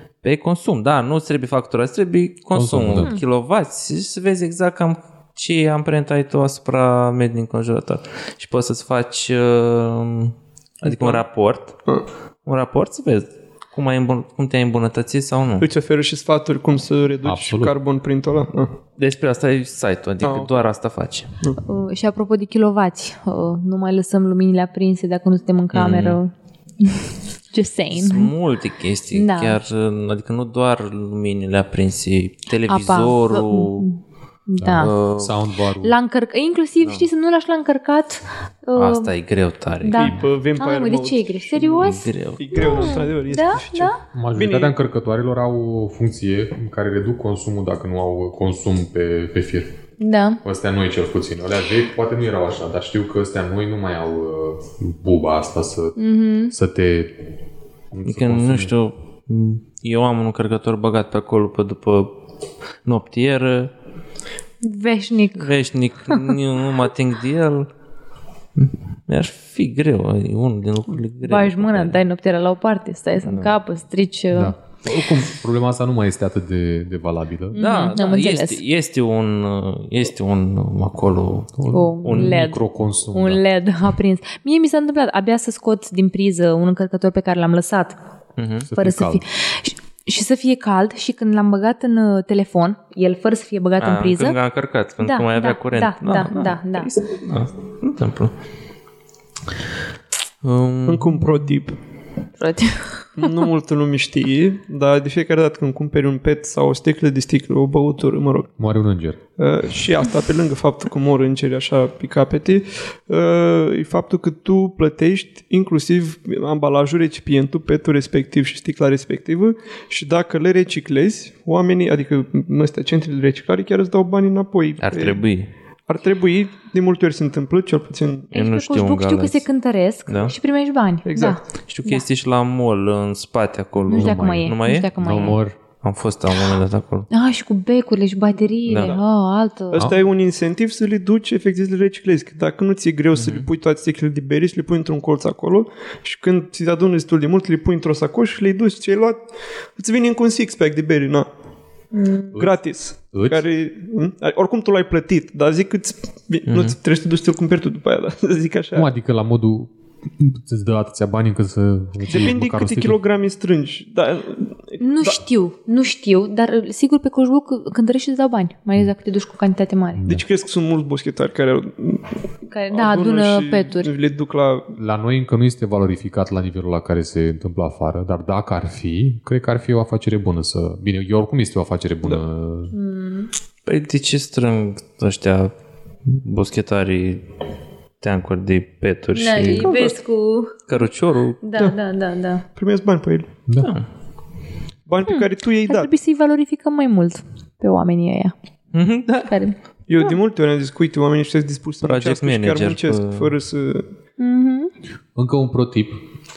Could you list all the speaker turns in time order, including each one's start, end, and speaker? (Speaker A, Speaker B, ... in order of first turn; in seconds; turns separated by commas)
Speaker A: 0.2-11.8, Speaker B: 2.5-3.1, Speaker C: 10.8-11.2, Speaker A: 12.5-15.7, Speaker C: 15.6-18.7, Speaker B: 17.2-17.7, Speaker A: 19.0-21.3, Speaker C: 20.2-20.5, Speaker D: 21.6-28.3, Speaker A: 25.7-26.2, Speaker A: 27.9-33.9, Speaker D: 29.1-29.6, Speaker D: 32.7-34.9, Speaker B: 34.6-36.0, Speaker A: 34.8-35.4, Speaker D: 35.8-39.1, Speaker A: 36.8-37.1, Speaker A: 38.8-40.2, Speaker D: 39.8-44.0, Speaker C: 40.0-44.7, Speaker A: 41.8-43.0, Speaker B: 44.1-49.8, Speaker D: 50.0-50.4, Speaker B: 50.4-56.0, Speaker D: 56.0-56.5, Speaker B: 56.5-57.2, Speaker B: 57.9-58.7, Speaker A: 58.1-62.1, Speaker A: 62.9-63.7, Speaker D: 64.6-65.5, Speaker A: 65.4-67.7, Speaker D: 66.1-66.3, Speaker A: 68.6-72.0, Speaker D: 71.2-74.5, Speaker A: 73.2-73.6, Speaker B: 74.3-77.7, Speaker D: 77.5-78.6, Speaker A: 77.6-82.5, Speaker B: 81.6-83.4, Speaker D: 81.7-88.0, Speaker A: 88.4-88.7, Speaker B: 88.7-89.2, Speaker D: 88.8-94.4, Speaker A: 93.8-98.3, Speaker D: 95.0-96.9, Speaker A: 100.4-101.2, Speaker C: 100.9-101.8, Speaker D: 102.4-103.3, Speaker C: 103.2-108.5, Speaker B: 108.6-109.2, Speaker C: 109.4-125.2, Speaker A: 124.8-125.5, Speaker C: 125.9-128.3, Speaker A: 128.3-129.4, Speaker D: 128.3-132.0, Speaker A: 130.1-130.3, Speaker C: 131.1-131.4, Speaker A: 131.7-137.1, Speaker B: 133.9-135.6, Speaker D: 133.9-135.4, Speaker D: 137.1-139.8, Speaker A: 138.7-139.0, Speaker C: 139.7-149.2, Speaker A: 143.1-143.5, Speaker C: 149.8-151.3, Speaker D: 151.9-152.4, Speaker C: 152.4-158.9, Speaker B: 153.1-153.4, Speaker A: 156.5-156.8, Speaker B: 158.8-163.0, Speaker C: 162.1-165.2, Speaker D: 164.8-170.1, Speaker B: 170.0-170.2, Speaker C: 170.1-174.7, Speaker D: 172.5-173.9, Speaker B: 174.8-182.7, Speaker D: 182.7-183.3, Speaker A: 183.7-185.5, Speaker A: 186.1-187.2, Speaker A: 188.0-189.8, Speaker D: 189.2-190.6, Speaker C: 189.4-189.9, Speaker A: 190.7-191.4, Speaker D: 191.4-192.4, Speaker C: 192.6-193.3, Speaker B: 193.5-193.7, Speaker A: 193.6-193.9, Speaker C: 194.9-195.9, Speaker D: 195.1-198.3, Speaker A: 198.7-199.3, Speaker D: 199.2-199.6, Speaker C: 199.9-203.9, Speaker A: 201.8-203.3, Speaker D: 204.2-204.7, Speaker B: 205.2-206.0